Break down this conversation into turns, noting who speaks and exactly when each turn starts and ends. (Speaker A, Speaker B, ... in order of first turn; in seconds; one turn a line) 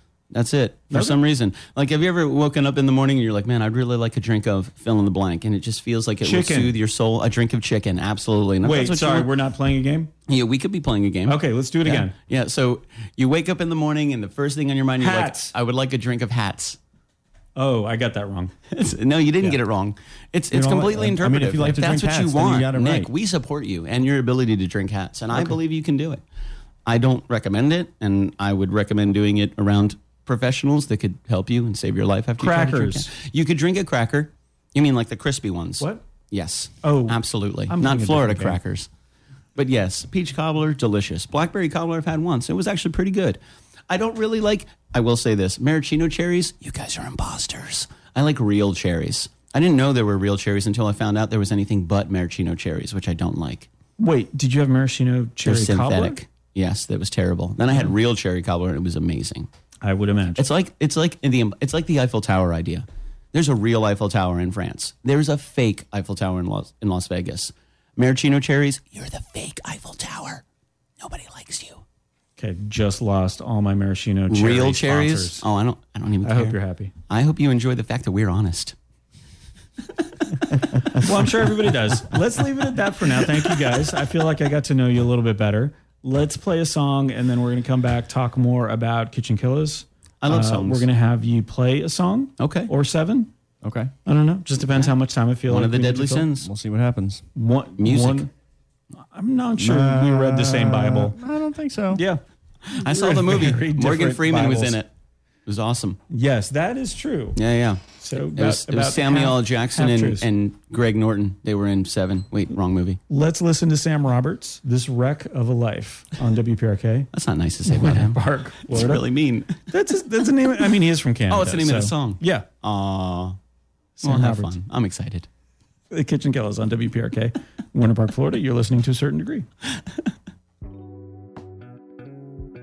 Speaker A: 0.3-9.3
Speaker B: 0.9-1.2
Speaker B: 6.2-6.7
Speaker B: 8.6-10.1
Speaker A: 10.3-16.8
Speaker B: 11.3-12.2
Speaker B: 15.0-15.5
Speaker B: 17.6-18.5
Speaker A: 18.7-26.2
Speaker B: 20.5-21.1
Speaker C: 21.1-23.1
Speaker A: 26.9-38.9
Speaker B: 32.4-33.1
Speaker B: 36.8-38.6
Speaker A: 39.6-43.4
Speaker A: 43.9-53.7
Speaker B: 54.0-56.2
Speaker A: 55.5-59.5
Speaker B: 59.8-60.5
Speaker A: 60.4-70.4
Speaker A: 71.0-71.8
Speaker B: 72.4-75.5
Speaker A: 74.3-76.6
Speaker B: 76.2-76.9
Speaker A: 77.1-78.8
Speaker B: 80.9-93.3
Speaker A: 90.2-90.9
Speaker A: 92.4-92.7
Speaker C: 93.6-93.9
Speaker B: 94.1-96.3
Speaker A: 95.5-96.5
Speaker C: 96.4-97.2
Speaker B: 97.3-98.3
Speaker A: 97.8-98.3
Speaker B: 99.1-101.2
Speaker C: 99.6-102.0
Speaker B: 101.9-102.2
Speaker A: 102.7-104.9
Speaker B: 102.8-104.8
Speaker A: 105.5-106.0
Speaker B: 106.1-107.4
Speaker A: 107.4-113.0
Speaker B: 108.0-110.3
Speaker B: 113.1-117.1
Speaker A: 117.1-119.7
Speaker B: 117.7-119.0
Speaker B: 119.7-122.5
Speaker A: 121.3-123.4
Speaker B: 124.0-124.6
Speaker A: 124.0-125.3
Speaker B: 125.9-129.5